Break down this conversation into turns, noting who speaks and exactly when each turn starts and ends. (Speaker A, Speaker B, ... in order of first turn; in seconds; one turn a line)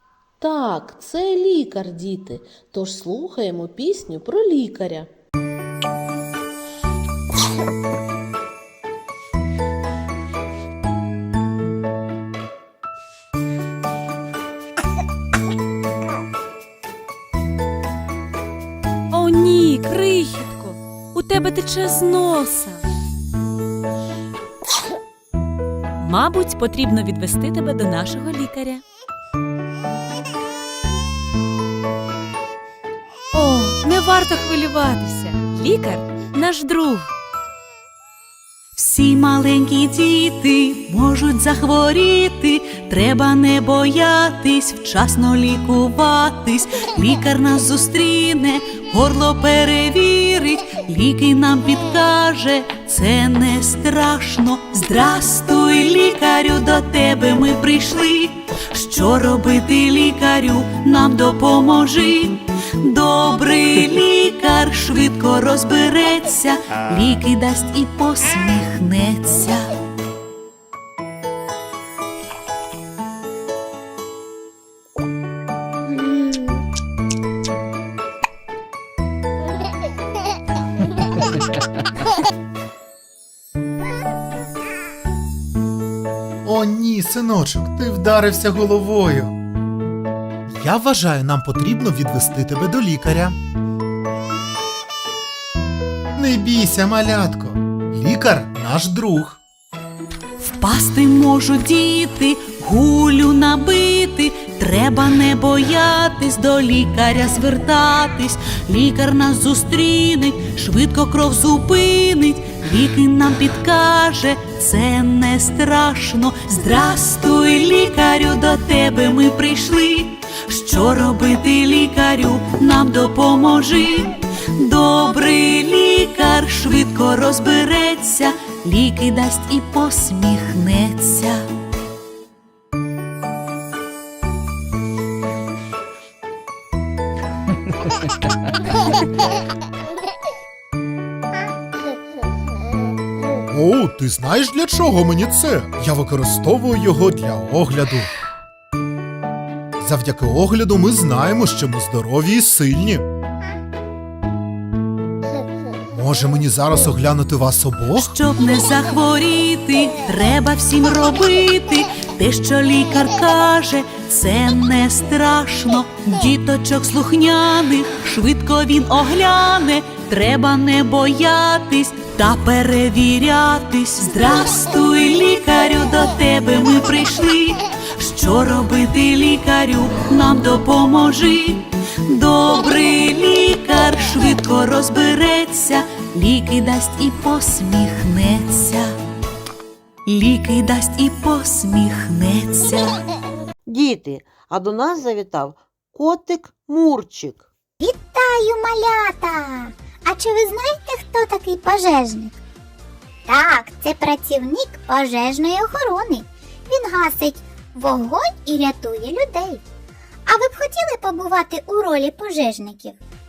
Speaker A: 0.4-5.1
Speaker B: 19.1-22.9
Speaker B: 26.0-28.8
Speaker B: 33.3-37.1
Speaker C: 38.8-69.7
Speaker D: 86.5-89.3
Speaker D: 90.5-93.4
Speaker D: 96.2-99.4
Speaker C: 100.4-131.4
Speaker D: 143.5-148.1
Speaker D: 149.8-153.0
Speaker D: 155.9-158.1
Speaker C: 157.9-188.9
Speaker C: 190.1-193.0
Speaker E: 193.7-197.5
Speaker F: 197.8-202.4
Speaker F: 203.3-209.6
Speaker F: 210.3-213.0